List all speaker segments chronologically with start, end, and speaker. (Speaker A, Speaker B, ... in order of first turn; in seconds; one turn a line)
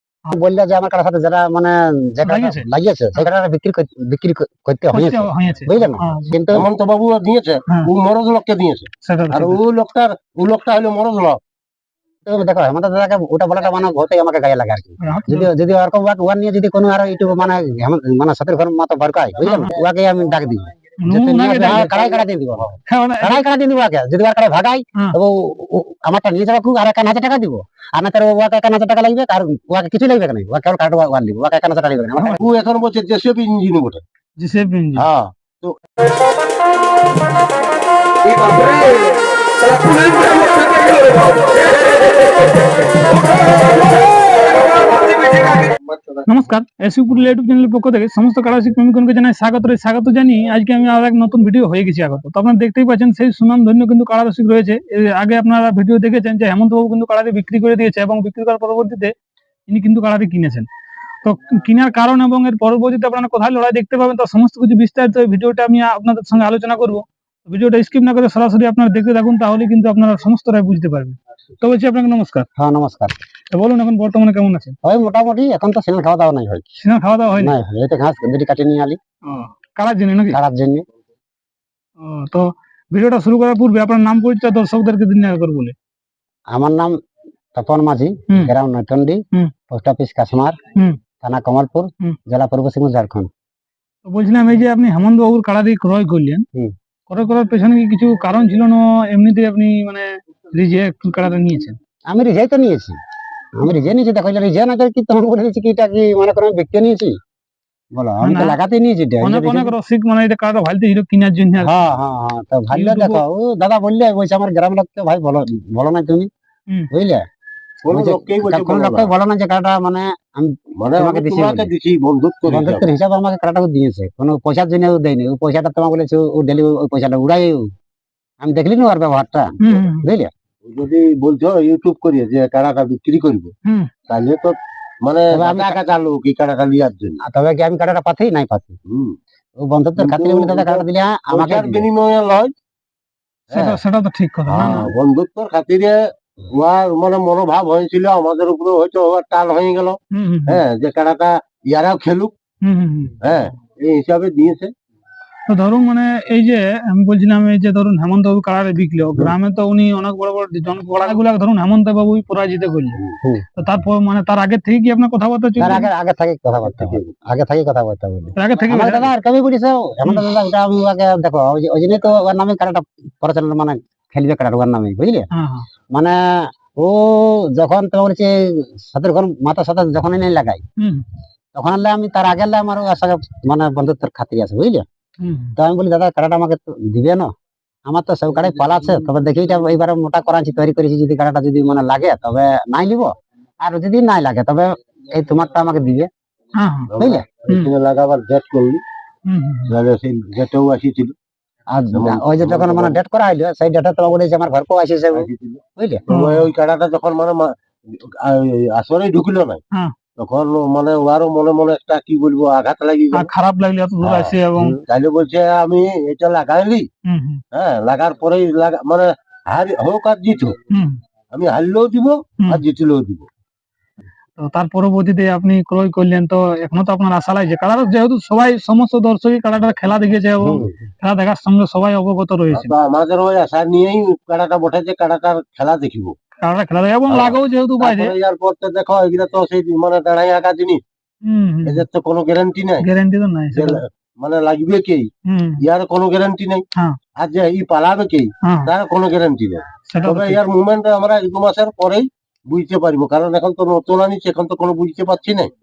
Speaker A: 0.3-6.7
Speaker B: 2.2-3.2
Speaker B: 4.9-6.3
Speaker C: 6.5-11.4
Speaker B: 9.0-9.6
Speaker A: 12.2-32.4
Speaker B: 15.0-15.5
Speaker B: 19.4-19.8
Speaker B: 21.0-21.9
Speaker B: 22.9-23.4
Speaker C: 32.4-34.0
Speaker B: 34.4-35.0
Speaker C: 35.0-35.7
Speaker B: 46.3-59.1
Speaker B: 59.7-60.7
Speaker B: 61.2-72.5
Speaker A: 72.6-73.1
Speaker B: 73.5-74.8
Speaker A: 74.8-76.7
Speaker B: 76.8-77.5
Speaker A: 77.4-79.0
Speaker B: 79.3-80.4
Speaker A: 80.3-80.8
Speaker B: 82.0-85.7
Speaker A: 86.5-86.9
Speaker A: 87.5-90.6
Speaker A: 91.2-93.3
Speaker B: 94.0-96.4
Speaker B: 97.1-101.8
Speaker A: 102.1-103.0
Speaker A: 103.6-107.2
Speaker A: 107.9-109.7
Speaker B: 108.2-108.6
Speaker B: 109.2-111.9
Speaker A: 111.6-116.3
Speaker B: 112.7-113.2
Speaker A: 116.9-117.2
Speaker C: 117.8-119.1
Speaker A: 117.9-121.7
Speaker C: 120.8-122.8
Speaker A: 122.5-127.7
Speaker A: 128.4-130.3
Speaker B: 129.6-130.1
Speaker C: 130.7-133.5
Speaker C: 134.1-137.2
Speaker A: 135.3-135.8
Speaker A: 137.2-138.8
Speaker C: 138.9-139.2
Speaker A: 139.6-141.9
Speaker C: 140.0-142.5
Speaker C: 143.5-143.8
Speaker B: 143.5-144.9
Speaker C: 144.5-146.0
Speaker C: 146.5-152.3
Speaker B: 150.1-150.6
Speaker B: 152.6-153.2
Speaker C: 153.2-154.7
Speaker B: 155.5-163.0
Speaker B: 163.6-165.9
Speaker A: 165.6-175.3
Speaker C: 166.6-167.1
Speaker B: 168.3-169.1
Speaker B: 175.3-175.7
Speaker A: 175.9-180.6
Speaker B: 180.8-181.0
Speaker A: 181.5-184.8
Speaker B: 185.2-185.6
Speaker A: 185.6-187.3
Speaker A: 187.9-196.1
Speaker B: 196.6-196.9
Speaker C: 196.9-198.8
Speaker A: 197.0-197.2
Speaker B: 199.3-199.7
Speaker C: 199.7-201.1
Speaker A: 201.7-206.0
Speaker C: 201.9-203.0
Speaker C: 205.1-209.6
Speaker B: 206.1-206.5
Speaker C: 210.2-213.3
Speaker B: 213.1-214.8
Speaker C: 214.0-216.8
Speaker B: 217.1-217.4
Speaker C: 217.5-220.6
Speaker B: 220.7-221.0
Speaker C: 221.3-223.3
Speaker B: 224.4-232.7
Speaker C: 230.4-230.7
Speaker C: 232.5-236.2
Speaker B: 236.4-238.1
Speaker C: 237.1-240.8
Speaker B: 241.2-241.8
Speaker C: 241.7-242.8
Speaker B: 242.8-243.8
Speaker C: 243.5-245.1
Speaker B: 245.3-245.6
Speaker C: 245.6-246.6
Speaker C: 247.2-255.5
Speaker B: 248.4-248.7
Speaker B: 249.9-250.4